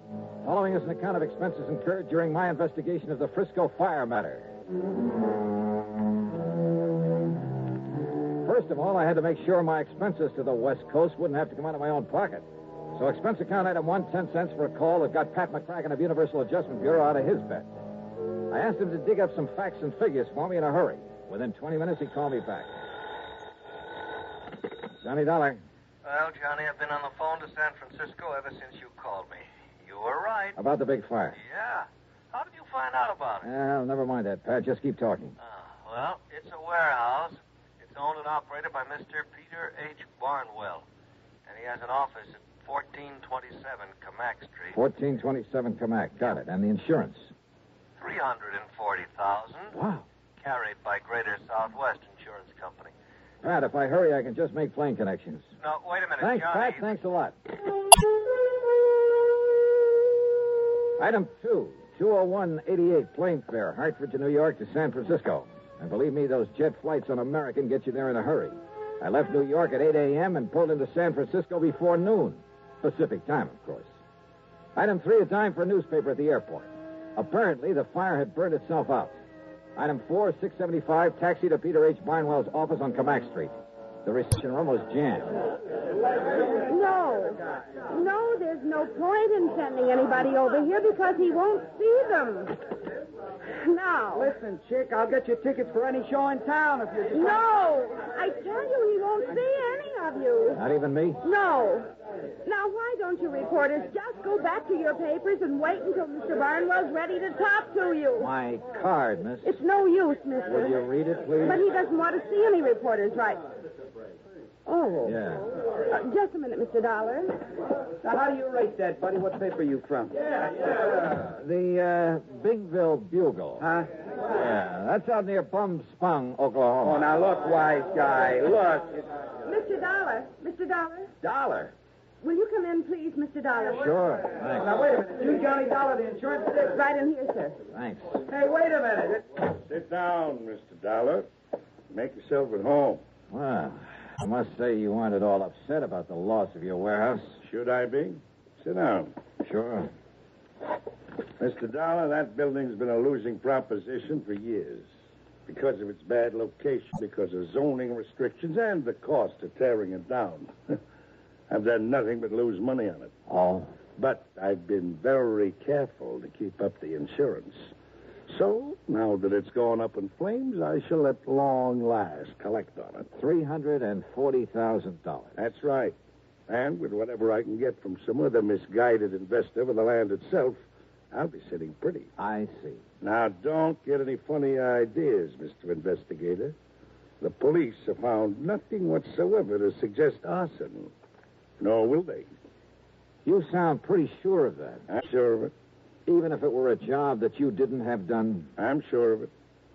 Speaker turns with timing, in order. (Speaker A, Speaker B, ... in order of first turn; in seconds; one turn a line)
Speaker A: 0.4-4.5
Speaker A: 8.4-17.7
Speaker A: 18.5-22.8
Speaker A: 25.0-25.6
Speaker B: 26.0-30.6
Speaker A: 30.6-31.4
Speaker B: 31.4-33.5
Speaker A: 33.4-35.3
Speaker B: 35.4-40.8
Speaker B: 41.5-44.8
Speaker A: 44.7-47.3
Speaker B: 48.0-49.7
Speaker A: 49.7-50.0
Speaker B: 50.4-52.9
Speaker A: 53.4-55.5
Speaker B: 55.6-56.9
Speaker A: 56.2-57.4
Speaker A: 61.0-74.0
Speaker A: 74.8-79.2
Speaker A: 79.8-85.4
Speaker C: 86.7-92.6
Speaker C: 93.6-94.3
Speaker D: 94.2-97.2
Speaker C: 97.1-100.6
Speaker A: 100.5-101.2
Speaker C: 101.2-101.9
Speaker C: 102.4-108.3
Speaker A: 108.2-109.5
Speaker C: 109.4-110.8
Speaker A: 110.4-111.6
Speaker C: 111.4-113.4
Speaker C: 114.7-115.2
Speaker A: 115.0-115.5
Speaker C: 115.9-117.3
Speaker A: 121.1-123.7
Speaker A: 124.3-127.1
Speaker C: 129.4-131.1
Speaker C: 132.2-133.9
Speaker A: 133.7-134.8
Speaker C: 136.5-137.6
Speaker A: 137.7-138.2
Speaker E: 139.5-141.3
Speaker E: 141.9-143.0
Speaker A: 143.3-147.4
Speaker E: 147.4-149.1
Speaker A: 149.4-149.9
Speaker E: 151.4-154.9
Speaker E: 155.5-160.8
Speaker E: 161.5-163.1
Speaker A: 163.3-163.7
Speaker E: 163.9-167.7
Speaker E: 168.3-173.1
Speaker A: 173.1-175.4
Speaker E: 175.4-175.9
Speaker E: 176.5-182.1
Speaker A: 182.2-182.8
Speaker E: 183.0-186.5
Speaker E: 187.2-190.9
Speaker E: 191.6-192.3
Speaker A: 193.2-194.8
Speaker E: 194.9-195.5
Speaker A: 196.1-198.5
Speaker E: 198.6-199.3